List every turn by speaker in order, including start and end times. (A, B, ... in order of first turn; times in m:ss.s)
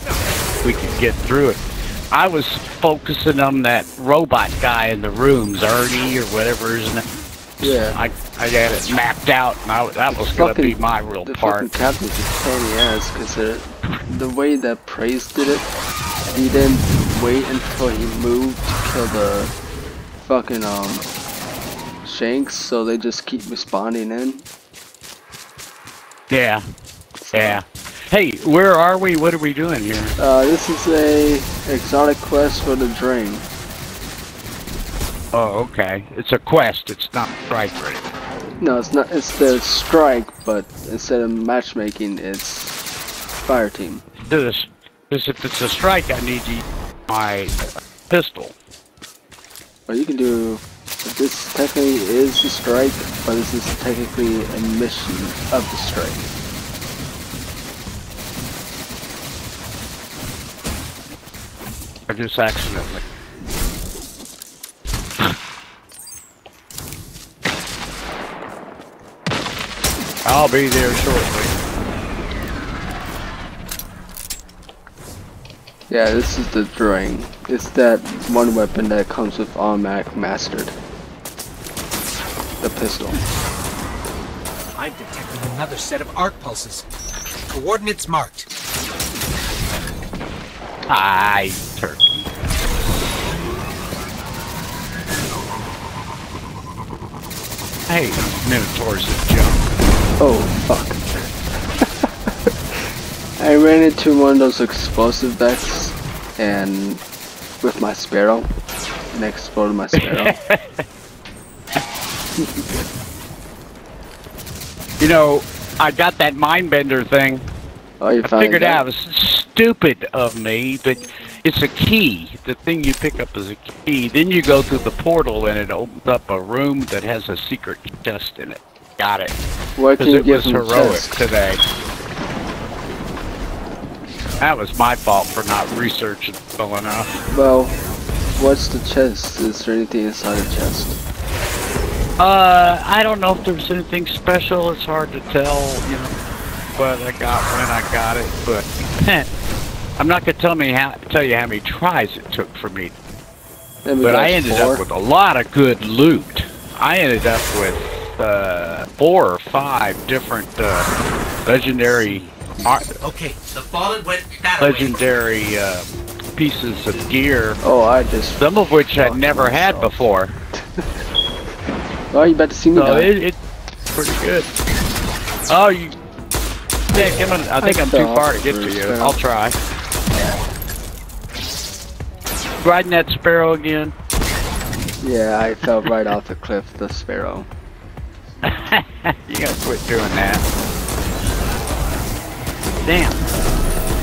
0:00.6-0:07.0 A
0:07.6-0:08.0 B
0:07.9-0:11.7 A
0:10.1-0:15.7 B
0:16.3-0:19.5 B
0:20.2-0:21.0 B
0:22.0-0:24.4 B
0:26.3-0:26.6 A
0:27.2-0:27.6 B
0:27.3-0:30.1 A
0:30.2-0:33.4 B
0:35.3-0:38.0 A
0:38.6-0:42.8 B
0:43.4-0:44.0 B
0:44.2-0:48.5 A
0:49.9-0:56.2 B
1:02.1-1:03.0 A
1:10.2-1:11.5 A
1:15.9-1:20.8 B
1:22.6-1:23.2 B
1:24.7-1:26.8 C
1:27.5-1:28.5 C
1:30.9-1:32.2 A
1:37.9-1:39.6 A
1:40.2-1:41.3 B
1:43.4-1:47.0 B
1:47.6-1:48.5 B
1:49.1-1:50.3 B
1:50.0-1:50.8 A
1:55.0-1:57.5 A
1:58.0-1:58.8 B
1:58.2-2:09.3 A
2:09.8-2:11.2 B
2:10.0-2:11.6 A
2:14.4-2:17.2 A
2:17.3-2:17.8 B
2:18.4-2:20.9 B
2:22.2-2:26.2 A
2:26.8-2:29.3 A
2:30.0-2:32.9 A
2:33.8-2:34.8 B
2:34.0-2:42.9 A
2:43.0-2:45.0 C
2:44.6-2:47.6 A
2:47.6-2:50.1 B
2:48.4-2:50.3 A
2:52.1-2:53.1 B
2:52.7-2:53.4 A
2:53.9-2:54.5 A
2:55.5-2:56.0 A
2:56.9-2:59.6 A
2:56.9-2:59.2 B
3:02.6-3:03.9 A
3:05.0-3:07.5 B
3:08.4-3:10.4 A
3:12.8-3:13.2 A